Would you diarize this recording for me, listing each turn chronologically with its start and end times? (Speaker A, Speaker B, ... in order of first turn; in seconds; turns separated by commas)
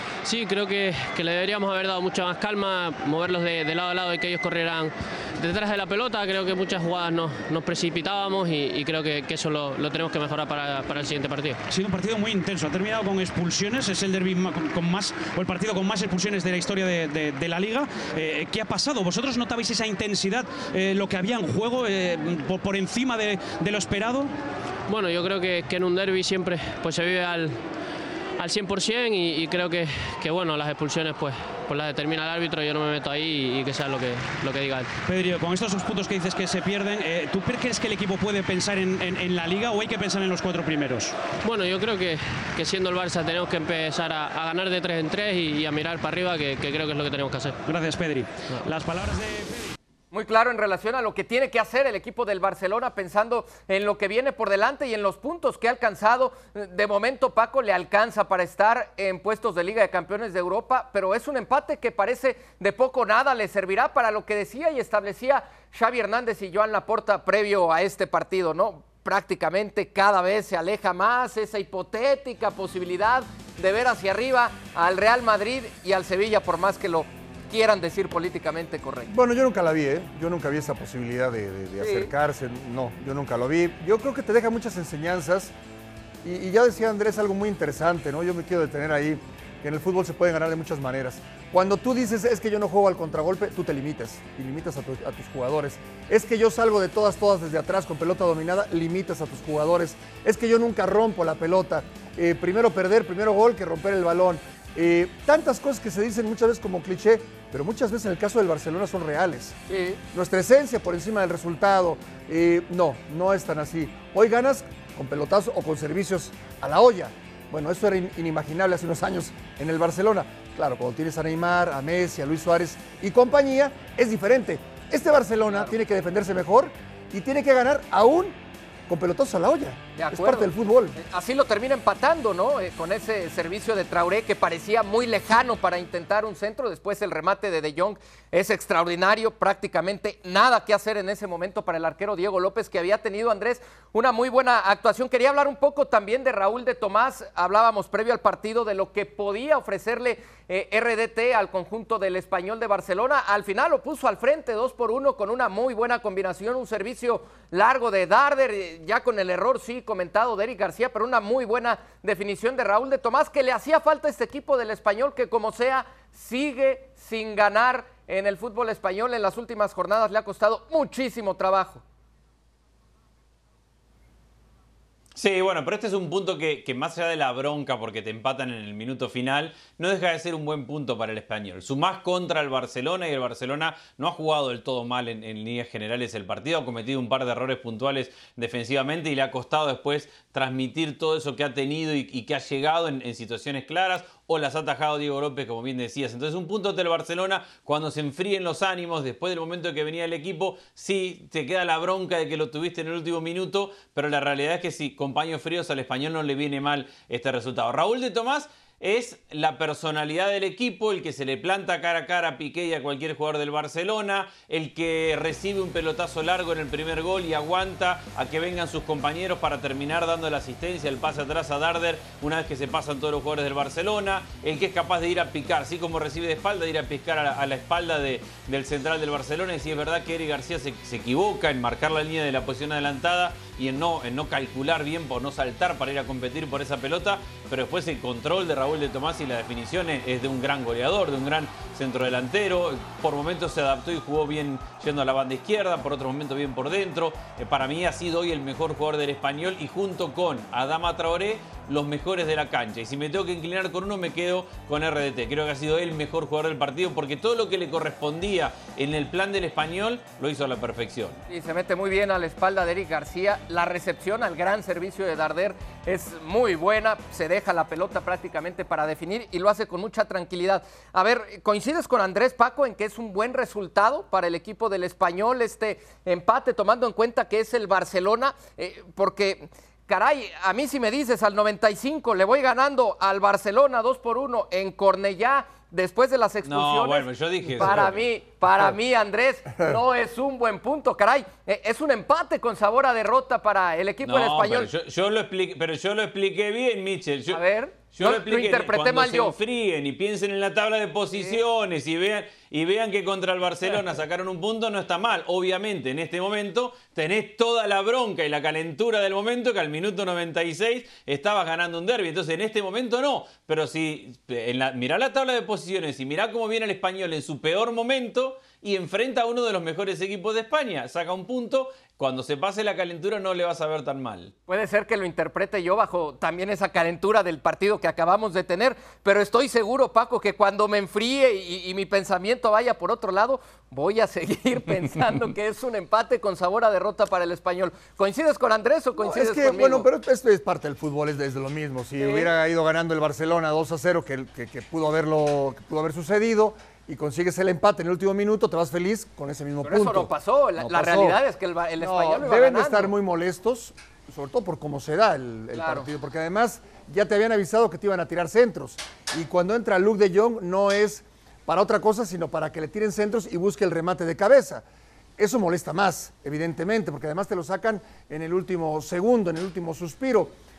Speaker A: 0.2-11.6, Speaker B: 11.7-24.3, Speaker A: 24.9-27.6, Speaker A: 28.4-34.9, Speaker B: 35.0-41.2, Speaker A: 41.4-47.6, Speaker B: 47.6-49.7, Speaker C: 50.1-79.1, Speaker D: 79.1-85.5, Speaker C: 81.8-82.1, Speaker D: 86.2-109.6, Speaker C: 109.7-110.0, Speaker D: 110.1-131.0, Speaker C: 130.0-171.8, Speaker E: 175.2-261.2, Speaker C: 261.3-294.7, Speaker E: 286.4-288.0, Speaker E: 294.0-324.3, Speaker C: 297.3-299.4, Speaker C: 301.1-301.4, Speaker C: 324.5-339.9, Speaker D: 339.0-351.2, Speaker C: 342.0-342.3, Speaker C: 349.6-352.9, Speaker D: 351.8-364.6, Speaker C: 355.5-355.9, Speaker D: 365.2-370.3